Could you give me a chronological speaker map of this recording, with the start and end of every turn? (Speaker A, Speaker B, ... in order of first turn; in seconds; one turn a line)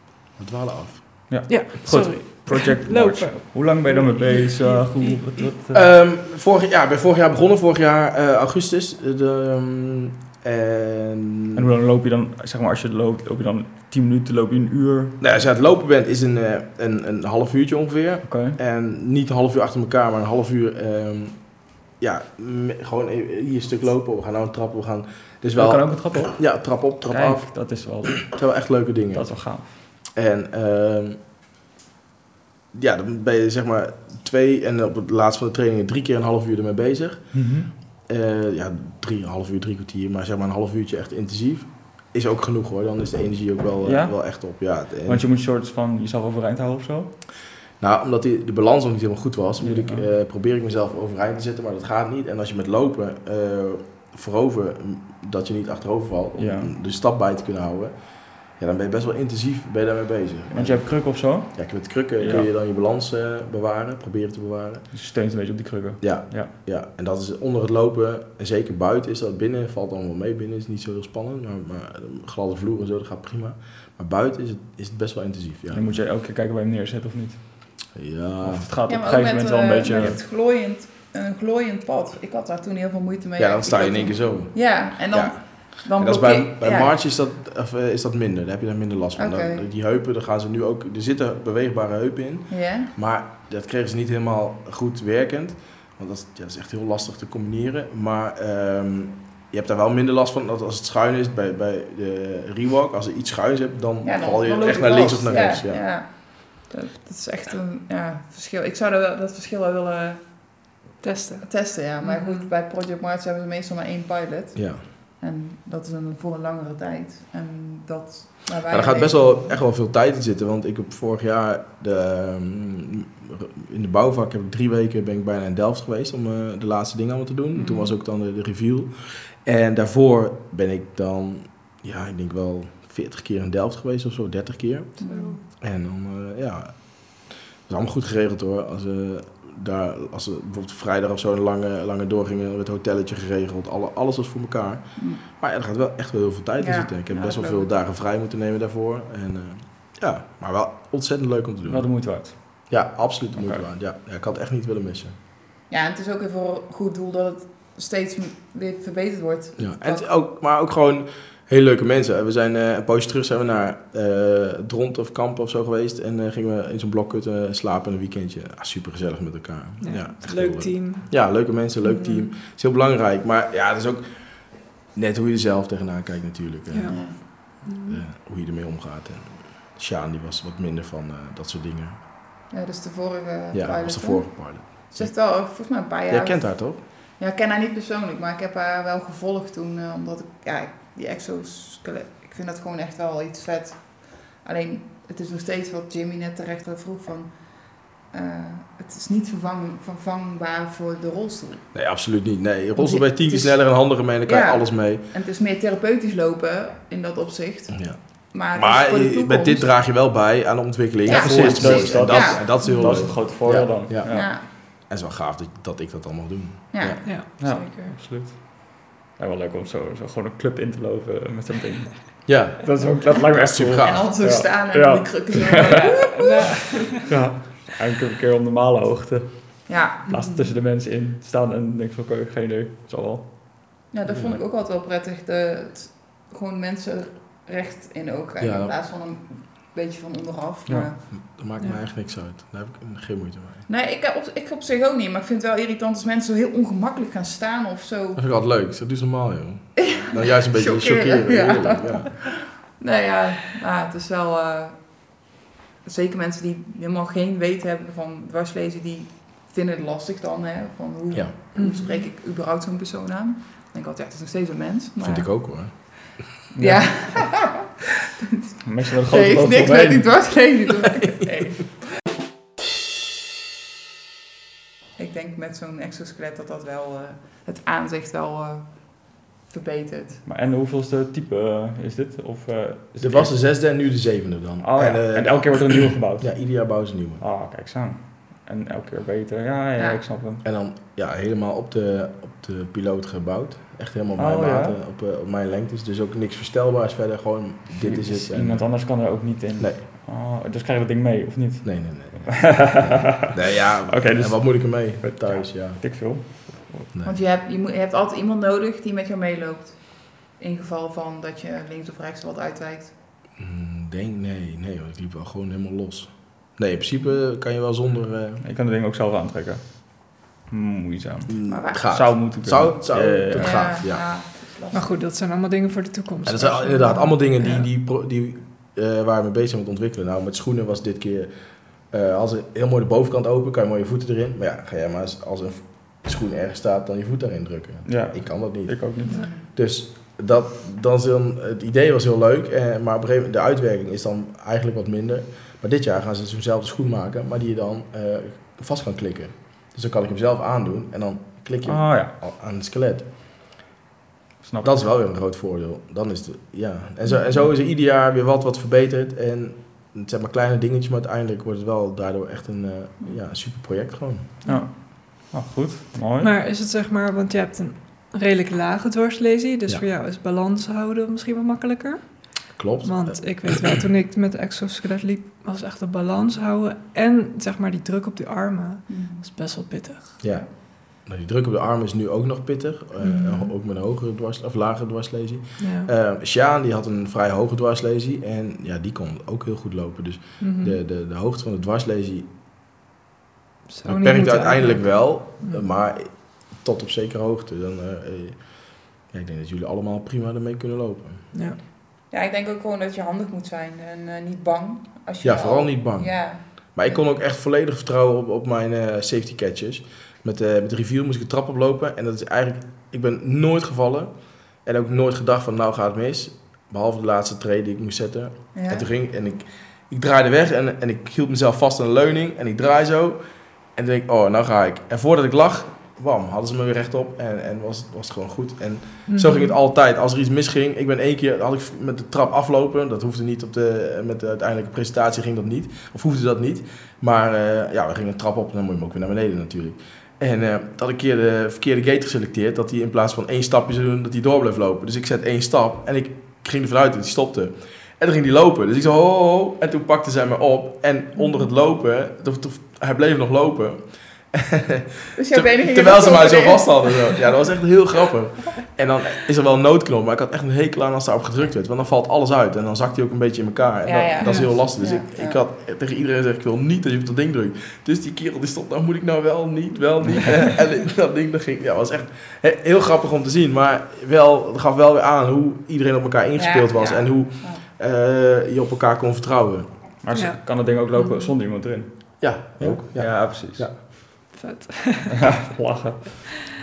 Speaker A: 0.4-1.3
Speaker B: 1.3-5.9
Speaker C: 1.5-5.4
Speaker A: 5.7-11.6
Speaker B: 11.6-15.2
Speaker A: 15.2-31.2
Speaker B: 18.3-18.6
Speaker B: 25.6-29.7
Speaker A: 32.7-37.5
Speaker B: 37.3-37.7
Speaker A: 38.1-45.2
Speaker B: 43.8-47.2
Speaker A: 47.8-64.9
Speaker B: 49.6-50.0
Speaker B: 56.4-56.7
Speaker B: 60.5-62.5
Speaker B: 64.9-66.5
Speaker A: 66.0-75.9
Speaker B: 75.7-77.9
Speaker A: 77.9-78.7
Speaker B: 78.4-80.2
Speaker D: 78.9-87.0
Speaker A: 83.4-105.8
Speaker D: 89.2-89.7
Speaker D: 92.5-92.9
Speaker D: 104.0-110.6
Speaker C: 111.0-112.5
Speaker D: 111.4-119.5
Speaker A: 114.5-114.8
Speaker A: 118.7-155.1
Speaker D: 127.5-127.9
Speaker D: 135.0-135.4
Speaker C: 135.1-135.4
Speaker D: 145.0-145.2
Speaker D: 146.6-147.7
Speaker B: 151.7-152.7
Speaker B: 153.4-153.7
Speaker D: 155.7-160.1
Speaker A: 159.6-182.0
Speaker C: 169.8-171.1
Speaker C: 176.7-178.0
Speaker D: 176.9-177.2
Speaker D: 182.5-201.7
Speaker A: 183.5-185.3
Speaker A: 186.1-186.8
Speaker A: 201.7-205.0
Speaker D: 202.8-209.7
Speaker A: 207.7-208.0
Speaker A: 208.5-217.0
Speaker D: 211.1-212.5
Speaker B: 211.1-214.3
Speaker D: 214.1-214.5
Speaker D: 216.7-217.2
Speaker C: 217.0-218.0
Speaker B: 217.4-225.8
Speaker A: 222.3-224.1
Speaker D: 223.8-226.8
Speaker C: 225.9-226.7
Speaker B: 227.0-233.6
Speaker D: 229.7-230.0
Speaker C: 230.1-230.5
Speaker D: 233.9-241.0
Speaker A: 234.1-234.4
Speaker A: 238.4-238.7
Speaker A: 241.1-243.7
Speaker D: 243.7-248.2
Speaker A: 248.2-252.4
Speaker D: 249.8-255.3
Speaker D: 255.8-266.0
Speaker C: 261.6-262.1
Speaker A: 265.0-266.2
Speaker B: 266.5-267.4
Speaker D: 266.6-267.7
Speaker D: 268.5-271.7
Speaker B: 268.6-270.3
Speaker D: 275.0-280.2
Speaker B: 280.3-283.4
Speaker A: 283.0-287.2
Speaker B: 284.6-290.4
Speaker D: 289.8-290.0
Speaker A: 290.4-298.8
Speaker B: 294.2-294.8
Speaker B: 297.8-303.3
Speaker A: 301.6-305.8
Speaker B: 303.9-306.9
Speaker A: 306.9-307.2
Speaker D: 307.0-312.9
Speaker A: 313.4-318.4
Speaker B: 318.4-323.7
Speaker A: 321.3-324.1
Speaker D: 321.5-321.9
Speaker D: 323.4-325.0
Speaker C: 324.7-327.7
Speaker A: 326.3-353.1
Speaker B: 337.9-339.2
Speaker D: 339.1-339.4
Speaker B: 351.6-352.1
Speaker B: 354.4-354.7
Speaker A: 354.6-364.3
Speaker B: 364.5-366.3
Speaker C: 366.2-380.2
Speaker A: 372.6-373.5
Speaker D: 378.9-379.2
Speaker A: 380.2-392.3
Speaker C: 383.0-383.5
Speaker C: 385.6-385.9
Speaker C: 390.4-390.8
Speaker C: 393.7-395.6
Speaker A: 393.9-401.3
Speaker D: 402.1-407.0
Speaker A: 405.2-479.7
Speaker D: 418.5-418.9
Speaker C: 429.1-429.6
Speaker D: 455.2-457.3
Speaker D: 463.9-465.4
Speaker C: 464.2-464.6
Speaker D: 476.4-477.6
Speaker B: 480.0-483.9
Speaker A: 482.2-483.8
Speaker C: 484.3-485.5
Speaker B: 485.2-486.4